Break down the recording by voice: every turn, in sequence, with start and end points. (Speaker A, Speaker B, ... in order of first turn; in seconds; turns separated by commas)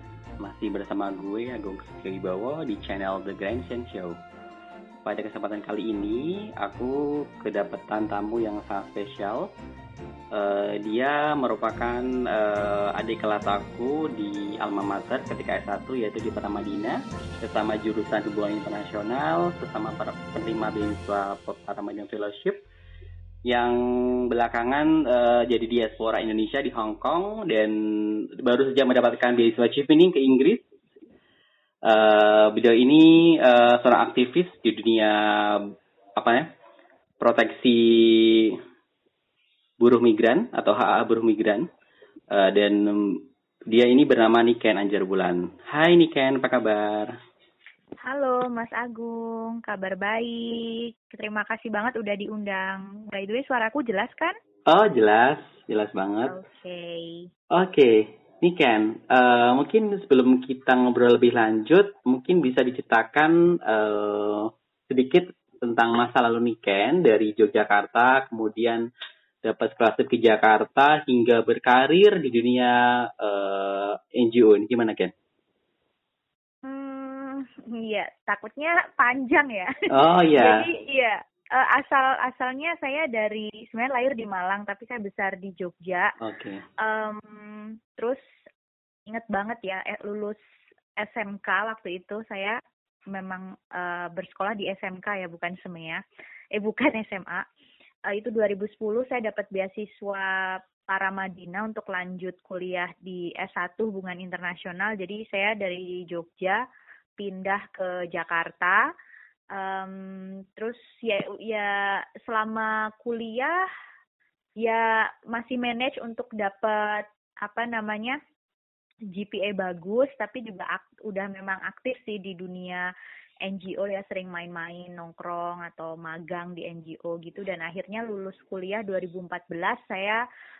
Speaker A: 0.4-4.2, Speaker A: 5.1-9.5, Speaker A: 10.3-22.6, Speaker A: 23.5-30.7, Speaker A: 31.9-36.5, Speaker A: 37.2-38.6, Speaker A: 39.8-41.7, Speaker A: 42.3-47.1, Speaker B: 48.0-54.3, Speaker A: 54.7-56.4, Speaker B: 56.3-57.3, Speaker A: 57.5-68.8, Speaker A: 69.4-75.1, Speaker B: 76.7-79.7, Speaker A: 79.9-80.7, Speaker B: 80.4-86.1, Speaker A: 86.2-86.6, Speaker B: 86.8-88.2, Speaker B: 89.1-90.4, Speaker B: 91.0-92.6, Speaker B: 93.1-96.0, Speaker B: 96.5-97.4, Speaker B: 98.1-106.6, Speaker B: 107.2-108.8, Speaker B: 109.5-113.6, Speaker B: 114.6-118.2, Speaker B: 119.1-122.9, Speaker B: 123.5-130.2